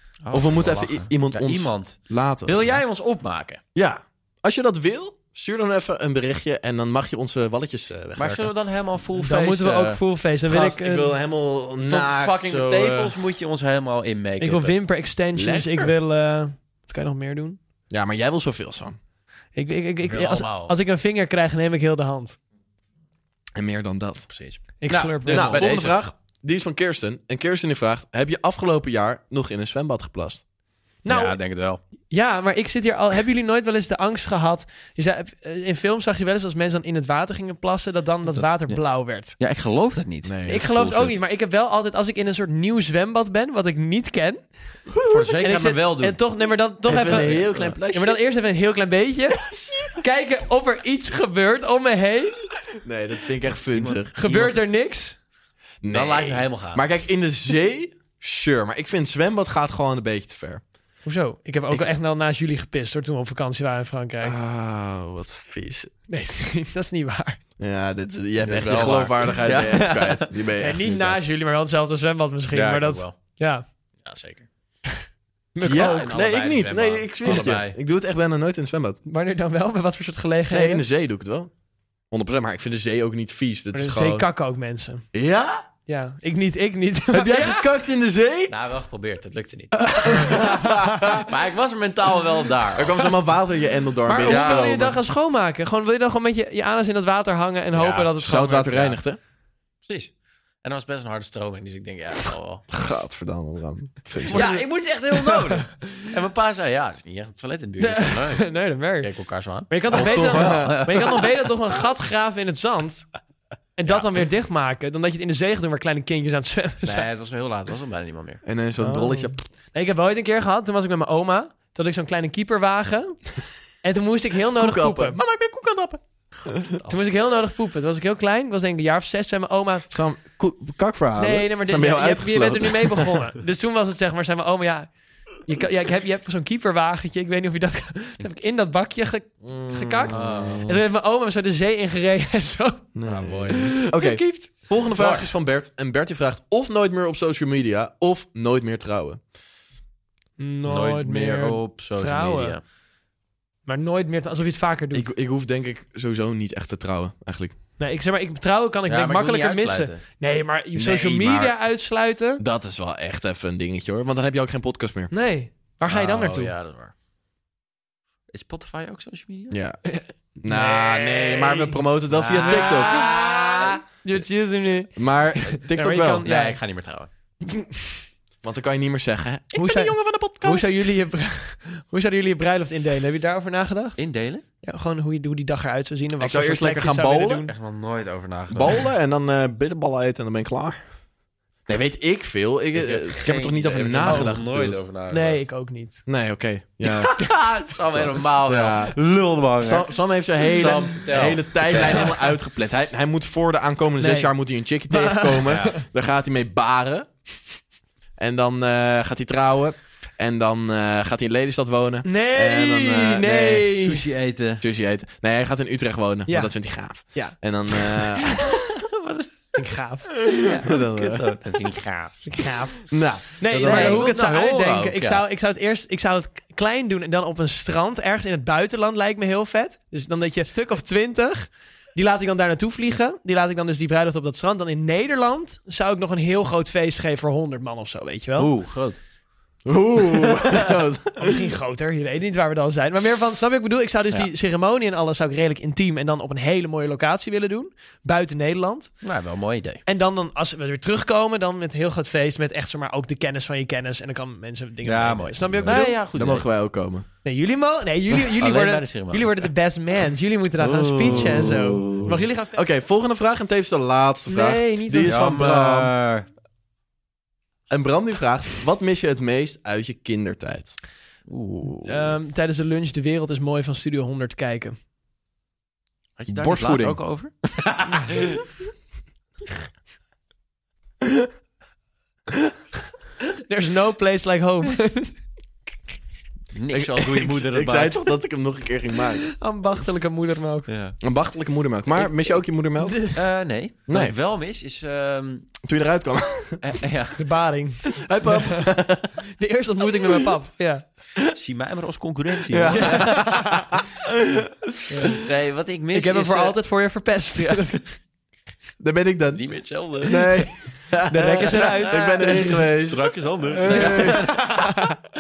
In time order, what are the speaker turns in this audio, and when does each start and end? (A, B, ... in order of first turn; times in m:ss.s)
0:00.2-0:03.6 A
0:00.3-0:02.7 B
0:03.7-0:08.5 B
0:08.2-0:10.0 A
0:09.2-0:11.1 C
0:10.5-0:13.1 B
0:11.8-0:14.8 A
0:14.4-0:17.6 C
0:15.4-0:15.9 B
0:17.9-0:19.0 B
0:19.5-0:22.4 C
0:20.1-0:20.7 A
0:23.6-0:24.3 B
0:24.3-0:26.0 A
0:24.8-0:25.7 C
0:25.2-0:30.4 B
0:31.0-0:31.4 C
0:31.1-0:31.8 A
0:32.1-0:39.4 C
0:38.3-0:41.2 A
0:40.2-0:40.8 B
0:40.5-0:44.5 C
0:44.9-0:45.3 B
0:45.1-0:46.2 A
0:45.4-0:52.4 C
0:46.9-0:48.2 B
0:46.9-0:47.8 A
0:49.4-0:50.0 B
0:52.8-0:54.1 B
0:53.7-0:54.6 A
0:54.2-0:55.2 C
0:55.8-1:00.6 B
0:55.8-0:56.8 A
1:01.0-1:04.4 C
1:04.2-1:05.9 B
1:06.1-1:07.4 C
1:07.6-1:11.2 B
1:08.4-1:10.3 A
1:10.6-1:13.6 C
1:12.5-1:13.2 A
1:14.0-1:14.5 A
1:15.5-1:16.1 C
1:15.6-1:19.0 B
1:15.6-1:17.8 A
1:19.0-1:20.8 C
1:20.5-1:21.5 B
1:22.1-1:24.2 B
1:23.7-1:25.0 C
1:25.1-1:25.6 B
1:25.9-1:27.7 C
1:27.1-1:28.5 B
1:28.5-1:30.4 A
1:29.8-1:31.3 B
1:31.1-1:33.1 A
1:32.7-1:35.0 B
1:34.0-1:39.0 C
1:34.2-1:34.8 A
1:37.7-1:38.1 A
1:38.2-1:39.2 B
1:39.8-1:40.1 A
1:40.6-1:42.6 A
1:42.7-1:44.6 B
1:44.3-1:51.4 A
1:44.3-1:45.4 C
1:47.8-1:49.1 C
1:49.7-1:53.0 C
1:49.9-1:50.8 B
1:53.8-1:57.1 C
1:56.8-1:58.4 A
1:58.4-1:59.4 B
1:58.8-2:03.3 C
2:03.8-2:05.2 C
2:04.5-2:06.8 B
2:06.8-2:09.9 C
2:09.9-2:13.2 B
2:11.2-2:14.9 C
2:15.4-2:22.9 C
2:19.4-2:20.8 B
2:20.1-2:20.7 A
2:22.9-2:29.2 B
2:23.0-2:23.7 A
2:23.5-2:24.5 C
2:25.0-2:25.3 A
2:30.4-2:32.6 C
2:30.7-2:32.6 A
2:33.6-2:35.1 C
2:34.9-2:37.5 B
2:37.8-2:42.4 C
2:38.9-2:40.0 A
2:40.7-2:41.5 B
2:42.4-2:45.1 B
2:45.1-2:46.5 C
2:45.9-2:46.9 A
2:48.3-2:49.6 A
2:49.5-2:49.8 B
2:49.8-2:51.8 C
2:50.4-2:53.0 B
2:52.1-2:53.8 A
2:52.3-2:56.6 C
2:54.9-2:56.2 B
2:56.2-2:57.1 A
2:57.4-2:57.9 C
2:58.4-3:00.8 B
2:59.5-3:04.0 C
3:04.0-3:04.4 A
3:04.6-3:07.5 C
3:06.2-3:07.5 B
3:07.5-3:08.8 A
3:08.5-3:10.8 B
3:11.7-3:14.8 B
3:12.7-3:15.4 A
3:14.0-3:14.4 C
3:15.1-3:16.0 C
3:16.0-3:17.2 B
3:16.8-3:22.3 A
3:17.8-3:19.0 B
3:19.6-3:27.1 B
3:24.0-3:24.3 C
3:24.9-3:25.8 C
3:25.5-3:25.7 A
3:28.2-3:33.7 B
3:32.0-3:34.0 C
3:33.7-3:34.6 A
3:34.6-3:38.6 B
3:36.3-3:36.5 C
3:37.1-3:37.4 C
3:38.2-3:39.3 A
3:39.5-3:40.7 C
3:40.3-3:41.3 B
3:40.5-3:42.5 A
3:42.2-3:58.5 C
3:42.9-3:44.1 B
3:43.6-3:45.2 A
3:58.4-3:59.0 A
3:59.6-4:01.4 B
4:00.3-4:00.7 A
4:01.2-4:08.9 C
4:09.0-4:09.8 A
4:09.8-4:15.9 C
4:14.8-4:16.4 A
4:15.6-4:17.0 B
4:17.2-4:22.6 C
4:18.4-4:19.5 A
4:20.6-4:22.2 A
4:21.1-4:21.6 B
4:22.5-4:25.9 B
4:24.3-4:25.4 C
4:25.0-4:26.2 A
4:27.7-4:30.8 B
4:31.3-4:32.0 A
4:31.8-4:34.8 C
4:36.2-4:38.4 A
4:36.3-4:37.0 B
4:41.0-4:41.3 B
4:43.4-4:45.2 C
4:46.5-4:48.0 A
4:46.7-4:49.3 B
4:49.3-4:50.7 C
4:50.7-4:51.0 A
4:51.0-4:53.0 B
4:52.8-4:53.2 C
4:53.1-4:55.6 A
4:53.9-4:54.2 B
4:55.6-4:56.6 B
4:56.6-4:57.2 A
4:57.2-4:58.7 C
4:57.9-4:59.1 B
4:59.4-5:00.8 C
5:01.3-5:03.3 A
5:02.4-5:04.7 B
5:02.7-5:03.7 C
5:04.9-5:05.2 C
5:05.1-5:06.6 A
5:05.9-5:08.0 C
5:07.3-5:07.6 A
5:08.8-5:14.6 B
5:09.4-5:10.4 A
5:11.1-5:12.7 C
5:11.3-5:14.7 A
5:13.6-5:15.0 C